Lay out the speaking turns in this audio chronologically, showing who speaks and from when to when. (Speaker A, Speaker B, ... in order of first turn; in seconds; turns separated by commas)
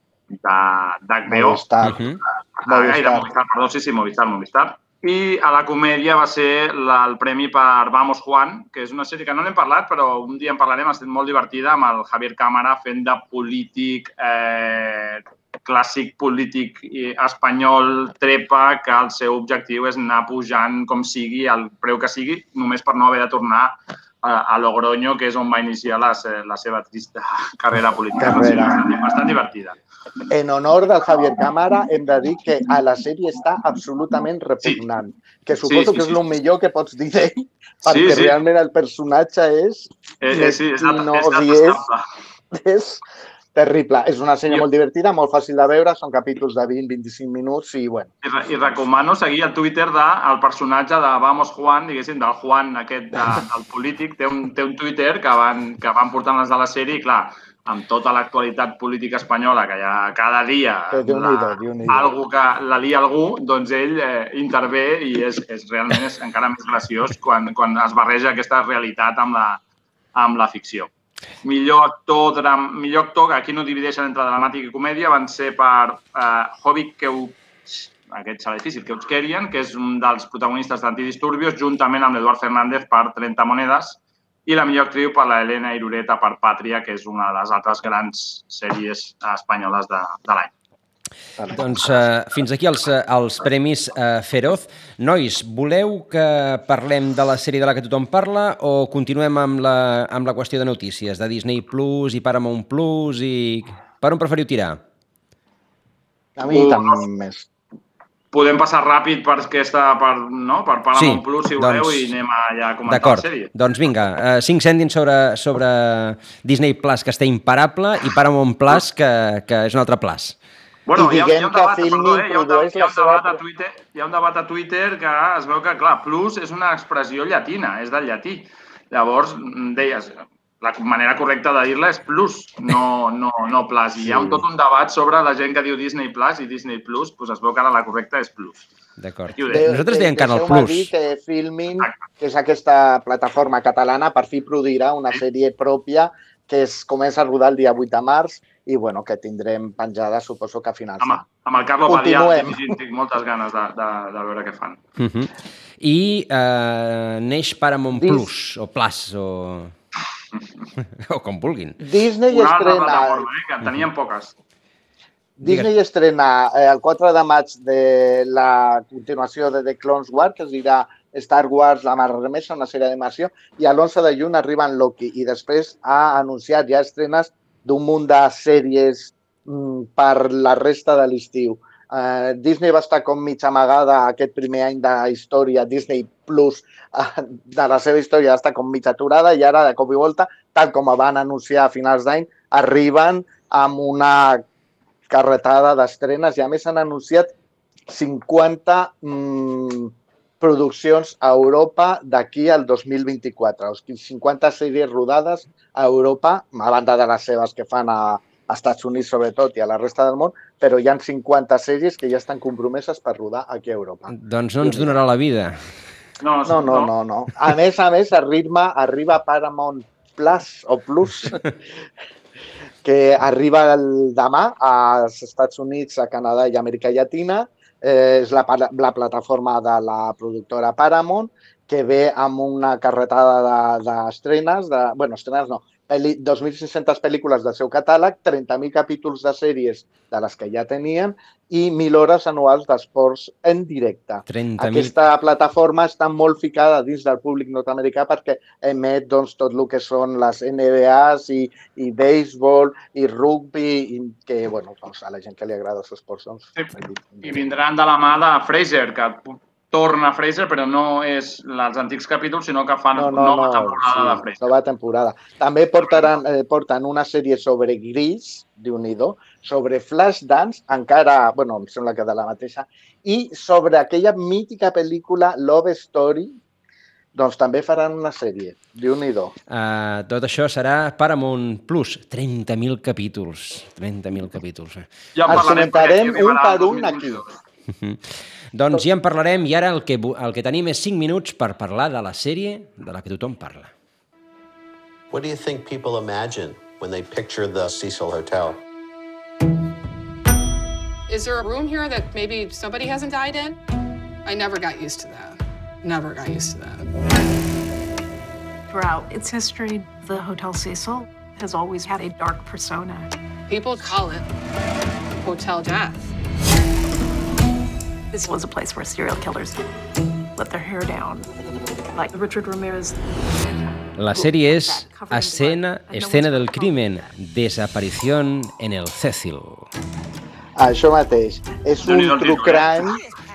Speaker A: 0.3-1.6, Speaker B: 1.3-2.0, Speaker C: 1.8-2.2, Speaker A: 2.6-29.8, Speaker B: 2.6-3.3, Speaker B: 28.2-28.8, Speaker B: 30.3-41.8, Speaker A: 35.6-36.2, Speaker A: 37.9-38.4, Speaker A: 40.2-42.0, Speaker B: 42.5-43.0, Speaker B: 43.5-48.1, Speaker A: 48.2-69.6, Speaker B: 60.9-62.1, Speaker A: 70.2-70.9, Speaker A: 71.4-90.5, Speaker B: 91.4-92.0, Speaker C: 91.5-104.8, Speaker B: 106.4-107.5, Speaker A: 106.4-107.0, Speaker A: 108.3-113.5, Speaker C: 110.9-112.1, Speaker C: 112.9-120.4, Speaker A: 120.8-138.7, Speaker B: 121.0-123.4, Speaker C: 139.0-140.9, Speaker A: 139.4-139.7, Speaker B: 139.5-151.3, Speaker A: 151.0-154.8, Speaker B: 151.9-152.7, Speaker C: 155.0-159.7, Speaker B: 157.9-158.3, Speaker C: 161.0-161.8, Speaker B: 161.8-163.2, Speaker A: 162.3-164.3, Speaker B: 165.4-194.4, Speaker B: 195.1-197.3, Speaker B: 197.9-215.0, Speaker C: 214.1-215.6, Speaker A: 216.2-216.9, Speaker B: 216.4-221.4, Speaker B: 222.8-257.6, Speaker C: 244.3-245.0, Speaker A: 257.2-264.4, Speaker B: 262.9-276.4, Speaker A: 265.8-266.1, Speaker B: 277.1-279.3, Speaker C: 279.5-285.5, Speaker A: 285.1-287.4, Speaker B: 285.3-287.2, Speaker C: 287.7-293.7, Speaker D: 295.1-298.6, Speaker E: 301.1-303.6, Speaker E: 304.2-306.9, Speaker F: 308.7-313.1, Speaker E: 313.5-314.2, Speaker E: 315.2-316.1, Speaker F: 318.1-319.6, Speaker F: 320.4-321.3, Speaker F: 321.9-323.0, Speaker C: 324.0-329.7, Speaker F: 324.1-327.1, Speaker B: 330.6-333.0, Speaker A: 331.8-332.8